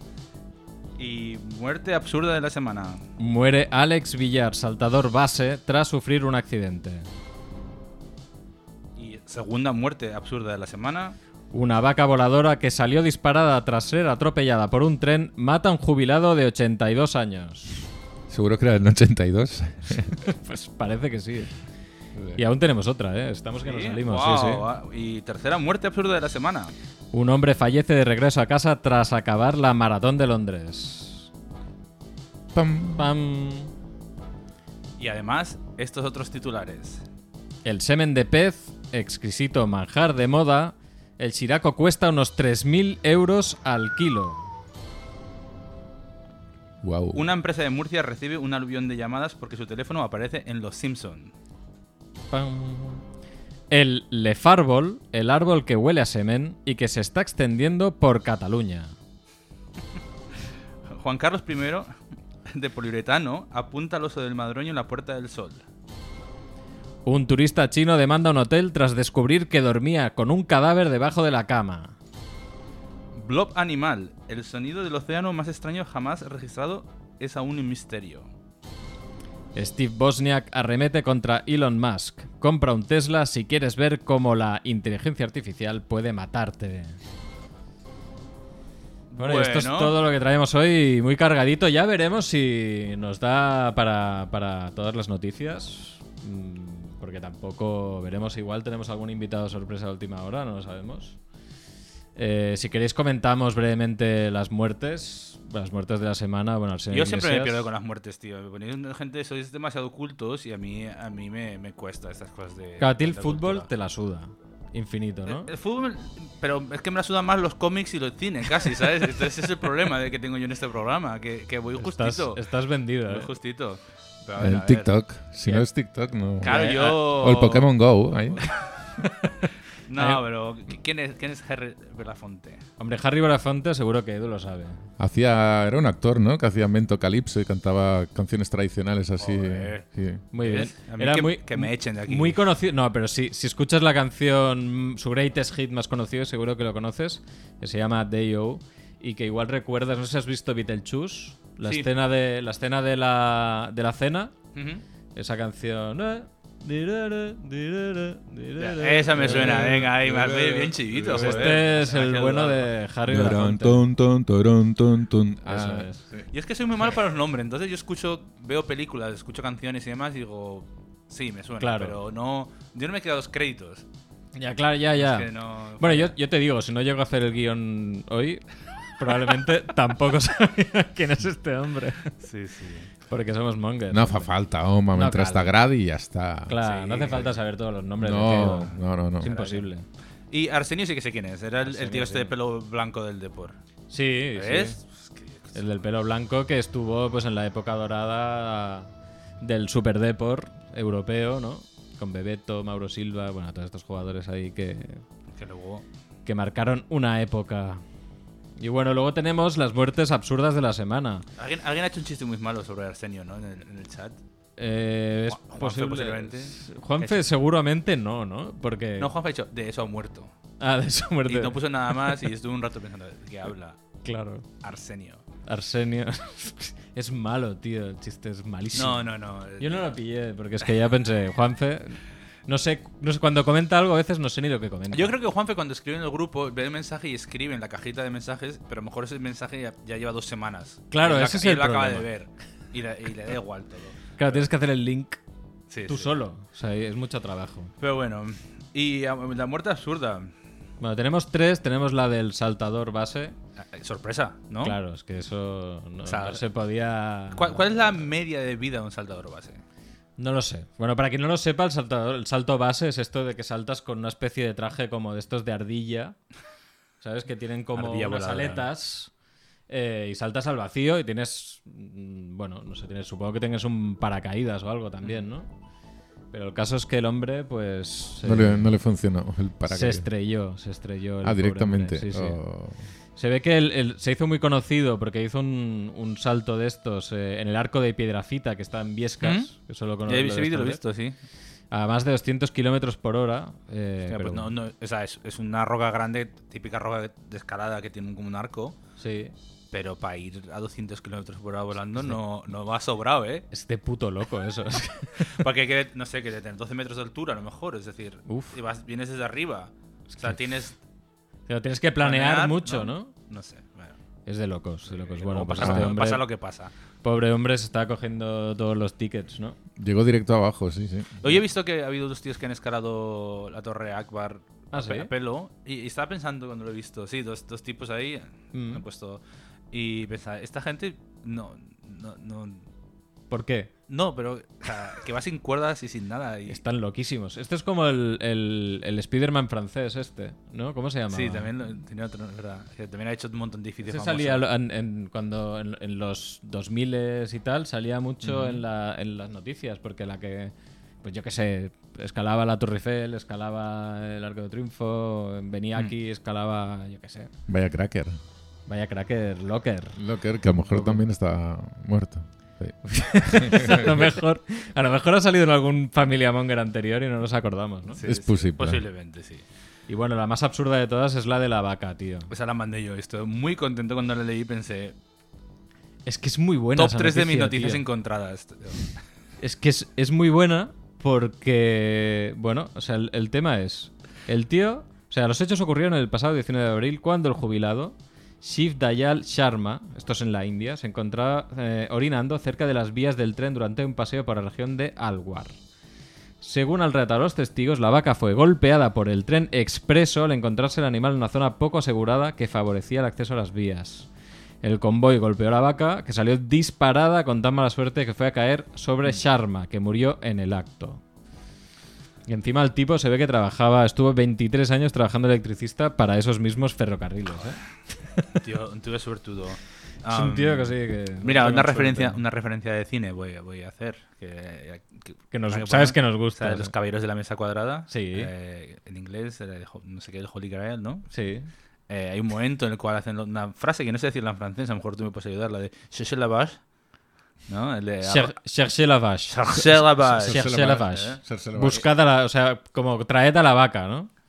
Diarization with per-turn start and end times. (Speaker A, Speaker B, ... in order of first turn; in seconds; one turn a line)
Speaker A: 1.0-3.0
Speaker B: 3.2-7.1
Speaker A: 9.0-11.2
Speaker B: 11.5-17.8
Speaker C: 18.3-20.1
Speaker B: 20.2-21.5
Speaker B: 22.4-24.6
Speaker A: 23.6-26.7
Speaker B: 27.1-31.3
Speaker C: 32.5-33.1
Speaker B: 33.0-33.7
Speaker A: 35.0-37.0
Speaker B: 37.6-44.5
Speaker C: 46.8-47.2
Speaker A: 47.1-51.3
Speaker B: 52.3-53.0
Speaker B: 53.7-58.9
Speaker A: 60.9-61.9
Speaker A: 62.5-65.6
Speaker B: 67.0-71.9
Speaker A: 73.2-78.3
Speaker B: 79.5-87.0
Speaker A: 89.1-90.0
Speaker B: 89.2-101.2
Speaker B: 102.2-107.7
Speaker A: 106.9-113.7
Speaker B: 112.8-115.5
Speaker A: 115.2-122.4
Speaker B: 121.8-123.3
Speaker A: 123.1-124.9
Speaker C: 124.4-128.4
Speaker B: 126.4-127.0
Speaker A: 126.4-127.7
Speaker A: 128.3-128.6
Speaker A: 129.9-132.6
Speaker B: 132.8-134.8
Speaker C: 135.0-140.2
Speaker A: 139.2-139.8
Speaker B: 140.3-154.3
Speaker A: 140.4-142.4
Speaker A: 151.6-151.9
Speaker A: 154.5-154.8
Speaker B: 155.1-159.9
Speaker A: 158.6-162.7
Speaker C: 159.2-161.6
Speaker B: 161.1-163.8
Speaker C: 163.1-166.3
Speaker B: 165.4-166.0
Speaker A: 166.3-173.8
Speaker B: 171.6-172.0
Speaker B: 174.3-178.4
Speaker A: 175.0-176.1
Speaker B: 179.0-182.1
Speaker A: 182.2-182.9
Speaker B: 183.1-184.3
Speaker C: 183.9-186.6
Speaker B: 184.9-185.5
Speaker B: 186.5-189.8
Speaker A: 186.6-187.3
Speaker C: 188.0-189.3
Speaker A: 189.2-189.7
Speaker A: 190.3-193.6
Speaker B: 191.6-192.3
Speaker B: 193.9-194.8
Speaker A: 194.3-195.8
Speaker B: 195.5-198.9
Speaker B: 199.4-205.0
Speaker A: 205.3-205.8
Speaker B: 206.2-207.8
Speaker B: 208.6-211.2
Speaker A: 211.4-214.2
Speaker B: 214.6-219.1
Speaker A: 215.3-217.2
Speaker A: 219.0-220.3
Speaker B: 220.6-222.1
Speaker A: 221.3-223.8
Speaker B: 224.0-224.4
Speaker A: 224.6-225.2
Speaker B: 225.5-229.1
Speaker A: 228.7-229.9
Speaker B: 229.6-235.1
Speaker A: 234.9-244.4
Speaker B: 240.9-242.1
Speaker B: 244.2-245.2
Speaker A: 245.7-246.2
Speaker B: 245.9-247.7
Speaker A: 247.8-250.3
Speaker B: 250.8-253.3
Speaker A: 253.6-254.8
Speaker B: 254.6-258.0
Speaker A: 256.0-256.4
Speaker A: 257.3-259.6
Speaker B: 260.2-266.1
Speaker B: 267.0-269.1
Speaker A: 267.7-268.6
Speaker B: 269.7-275.5
Speaker B: 276.3-278.7
Speaker C: 278.2-280.1
Speaker B: 279.7-282.4
Speaker C: 281.2-282.8
Speaker B: 283.1-290.8
Speaker A: 289.2-289.5
Speaker A: 290.1-291.1
Speaker B: 291.7-294.5
Speaker A: 294.1-298.8
Speaker B: 299.0-299.3
Speaker A: 299.7-303.4
Speaker B: 303.5-305.4
Speaker A: 305.2-310.7
Speaker B: 308.3-308.6
Speaker B: 310.1-310.4
Speaker B: 311.5-313.1
Speaker A: 312.0-314.0
Speaker B: 314.2-316.2
Speaker A: 314.9-316.7
Speaker C: 315.6-315.9
Speaker B: 317.0-319.6
Speaker C: 319.8-321.4
Speaker A: 321.2-329.2
Speaker B: 324.7-325.1
Speaker B: 328.5-328.8
Speaker A: 329.7-332.6
Speaker B: 333.3-333.7
Speaker A: 333.9-336.6
Speaker B: 336.5-341.5
Speaker A: 341.1-344.5
Speaker B: 343.8-357.3
Speaker C: 357.5-358.2
Speaker B: 358.7-360.0
Speaker C: 360.0-364.1
Speaker B: 360.7-361.0
Speaker B: 362.8-368.0
Speaker A: 367.9-369.4
Speaker C: 368.0-368.8
Speaker B: 369.9-372.3
Speaker A: 372.3-374.9
Speaker B: 376.1-377.8
Speaker A: 376.8-379.0
Speaker B: 379.4-395.5
Speaker B: 396.4-404.1
Speaker B: 404.6-411.0
Speaker B: 412.3-417.6
Speaker A: 418.4-431.1
Speaker B: 420.1-422.2
Speaker B: 425.3-426.7
Speaker B: 427.9-428.3
Speaker B: 431.1-431.5
Speaker A: 431.9-436.6
Speaker A: 437.5-438.4
Speaker B: 438.0-444.1
Speaker A: 439.3-441.2
Speaker C: 440.0-441.8